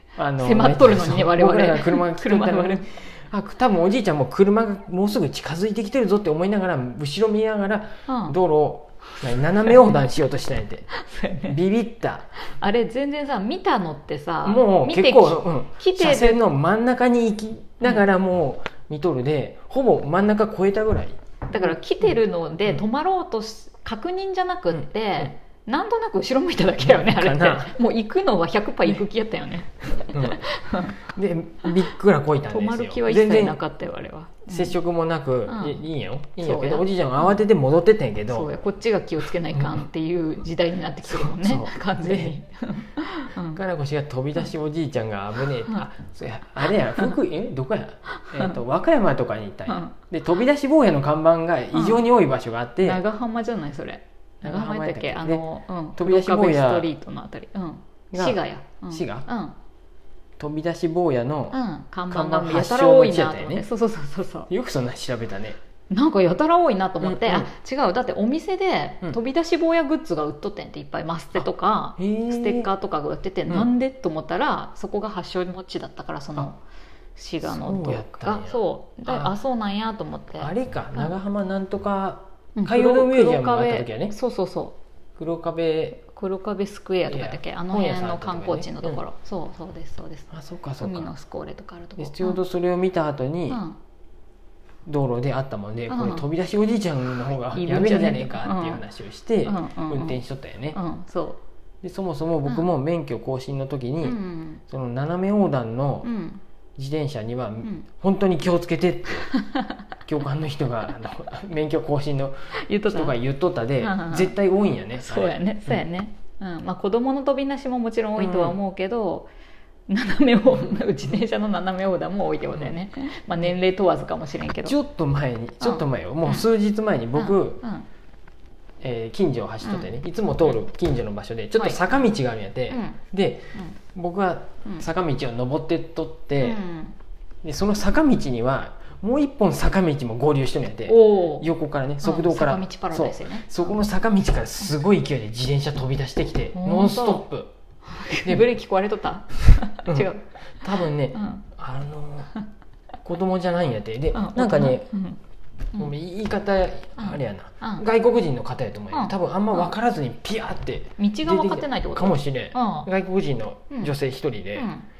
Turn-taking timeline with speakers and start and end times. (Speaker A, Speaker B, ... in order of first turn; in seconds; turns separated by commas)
Speaker A: 0.2-10.9, Speaker B: 0.3-2.9, Speaker B: 8.1-8.4, Speaker B: 9.3-9.7, Speaker B: 10.9-11.6, Speaker A: 11.4-12.3, Speaker B: 12.4-16.4, Speaker A: 14.4-22.8, Speaker B: 21.5-31.0, Speaker A: 24.7-25.3, Speaker A: 26.8-27.7, Speaker A: 30.0-30.5, Speaker A: 31.0-33.6, Speaker B: 32.5-34.8, Speaker A: 34.5-38.5, Speaker B: 35.5-35.9, Speaker B: 36.4-37.4, Speaker B: 38.3-43.6, Speaker A: 39.5-39.9, Speaker A: 41.0-42.4, Speaker A: 43.5-53.0, Speaker B: 48.2-48.6, Speaker B: 49.7-50.0, Speaker B: 51.7-52.0, Speaker B: 52.8-59.5, Speaker A: 54.4-56.9, Speaker A: 58.1-59.3, Speaker A: 60.4-63.7, Speaker B: 61.5-64.5, Speaker A: 64.5-65.6, Speaker B: 65.9-76.6, Speaker A: 67.0-67.5, Speaker A: 72.0-72.7, Speaker B: 77.2-81.1, Speaker A: 77.4-79.4, Speaker A: 80.4-84.2, Speaker B: 82.6-84.8, Speaker A: 85.2-86.0, Speaker B: 86.0-92.4, Speaker A: 87.1-89.0, Speaker A: 90.3-91.1, Speaker A: 92.0-93.6, Speaker B: 93.5-93.8, Speaker A: 94.9-100.8, Speaker B: 95.9-96.3, Speaker B: 97.5-98.8, Speaker B: 99.5-100.2, Speaker B: 100.7-101.4, Speaker A: 101.8-106.1, Speaker B: 104.0-104.6, Speaker B: 106.0-106.4, Speaker A: 106.8-109.3, Speaker B: 109.3-109.8, Speaker A: 110.0-115.8, Speaker B: 112.5-113.2, Speaker B: 113.8-114.3, Speaker B: 115.0-119.3, Speaker A: 118.2-118.6, Speaker B: 119.9-124.8, Speaker A: 124.7-127.6, Speaker B: 125.6-126.5, Speaker B: 127.1-127.9, Speaker A: 128.8-136.6, Speaker B: 129.6-129.9, Speaker B: 131.6-132.0, Speaker B: 132.7-133.0, Speaker B: 136.4-137.0, Speaker A: 137.4-147.5, Speaker B: 140.9-141.5, Speaker B: 142.0-143.8, Speaker B: 146.5-147.3, Speaker B: 147.8-151.4, Speaker A: 148.2-148.5, Speaker A: 149.8-152.3, Speaker A: 153.0-154.9, Speaker B: 154.1-155.2, Speaker A: 155.8-164.7, Speaker B: 157.0-157.9, Speaker B: 158.9-159.7, Speaker B: 161.0-162.9, Speaker B: 164.6-164.9